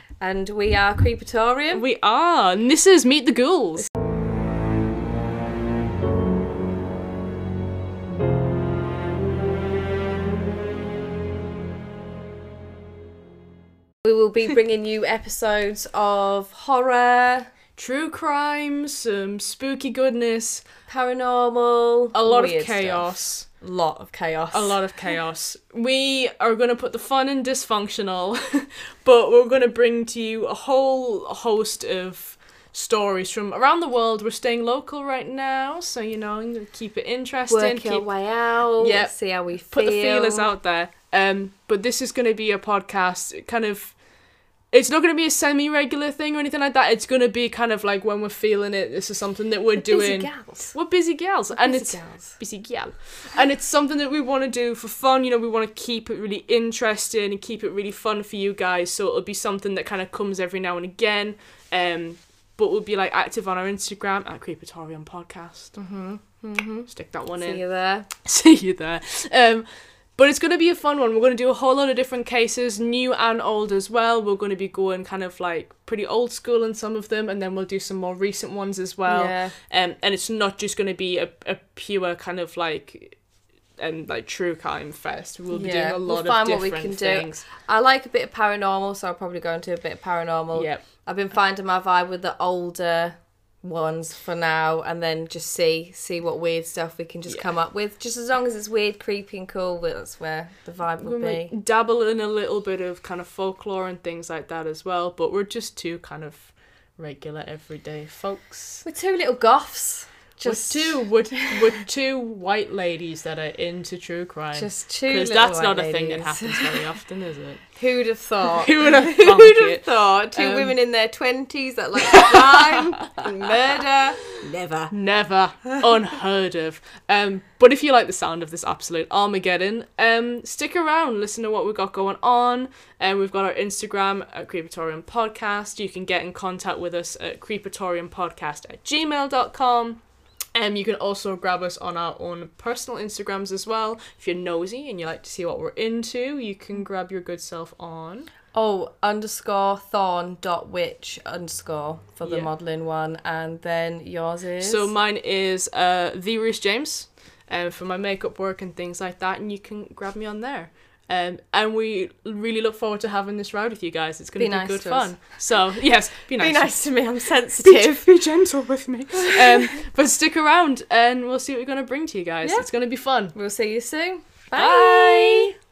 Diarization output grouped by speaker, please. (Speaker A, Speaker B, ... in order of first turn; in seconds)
Speaker A: 0.2-1.8, 14.0-17.5, 20.9-24.8, 37.5-40.5, 49.8-50.7, 51.5-52.4, 65.8-68.1, 79.1-79.5, 85.5-101.5, 108.8-111.8, 114.5-116.9, 117.8-124.9, 148.5-154.9, 164.4-165.1, 166.3-168.1, 169.3-169.6, 172.4-172.7, 173.3-175.5
Speaker B: 1.7-3.9, 17.8-20.6, 22.1-23.5, 24.5-38.1, 38.8-44.0, 44.7-65.8, 66.9-67.6, 68.2-69.7, 70.2-83.2, 83.8-87.5, 90.5-90.8, 97.3-97.5, 101.0-108.8, 110.4-117.7, 118.4-120.7, 122.1-123.2, 124.9-140.0, 140.5-148.3, 152.2-152.5, 154.6-166.8, 167.6-173.3, 174.5-175.5